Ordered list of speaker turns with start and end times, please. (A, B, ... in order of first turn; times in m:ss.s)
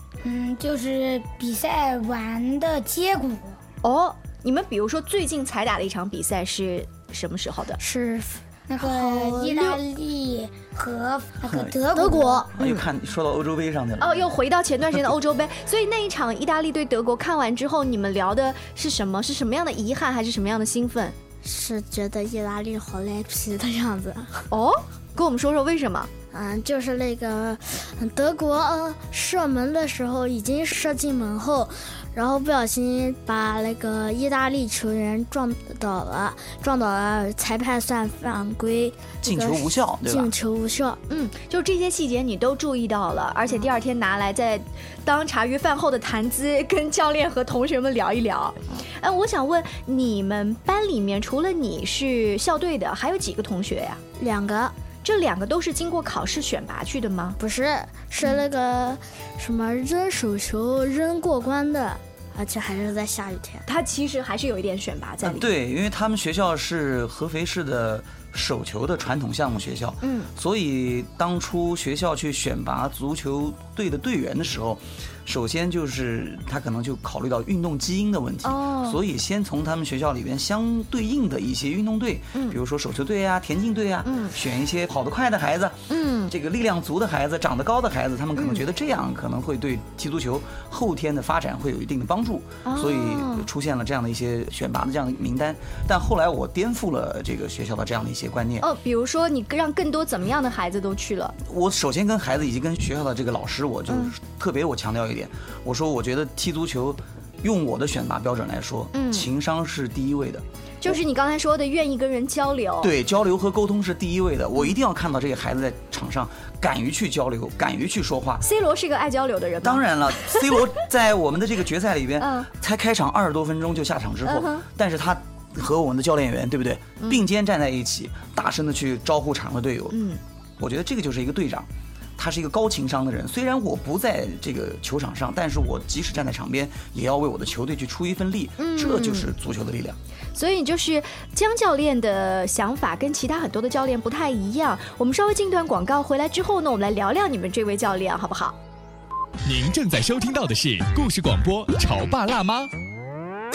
0:00.2-0:03.6 A
0:03.8-0:07.8 B
0:07.8-0:09.7 C
0:08.7-0:12.5 A
0:11.4-0:11.8 D
0:11.9-0:12.5 C
0:12.6-0:12.8 B
0:12.6-0:14.3 D
0:14.0-0:21.2 B
0:21.4-0:24.4 C
0:24.5-0:26.1 B
0:26.3-0:41.0 C
0:39.2-0:40.3 D
0:41.1-0:54.0 B
0:54.2-0:54.7 C
0:55.0-0:57.4 B
0:57.4-1:03.6 C
1:03.6-1:05.5 B
1:05.2-1:38.7 D
1:10.0-1:10.3 B
1:18.4-1:19.0 B
1:24.0-1:24.3 B
1:25.9-1:26.3 B
1:28.4-1:28.6 B
1:32.6-1:33.5 B
1:38.6-1:41.4 B
1:41.4-1:51.0 D
1:48.9-1:49.3 B
1:50.8-1:52.9 B
1:52.8-1:58.4 D
1:58.4-2:00.6 B
1:59.6-2:10.0 D
2:02.2-2:02.5 B
2:04.2-2:04.6 B
2:09.9-2:10.2 B
2:10.6-2:20.0 D
2:18.6-2:19.3 B
2:20.3-2:28.6 B
2:29.4-2:32.7 E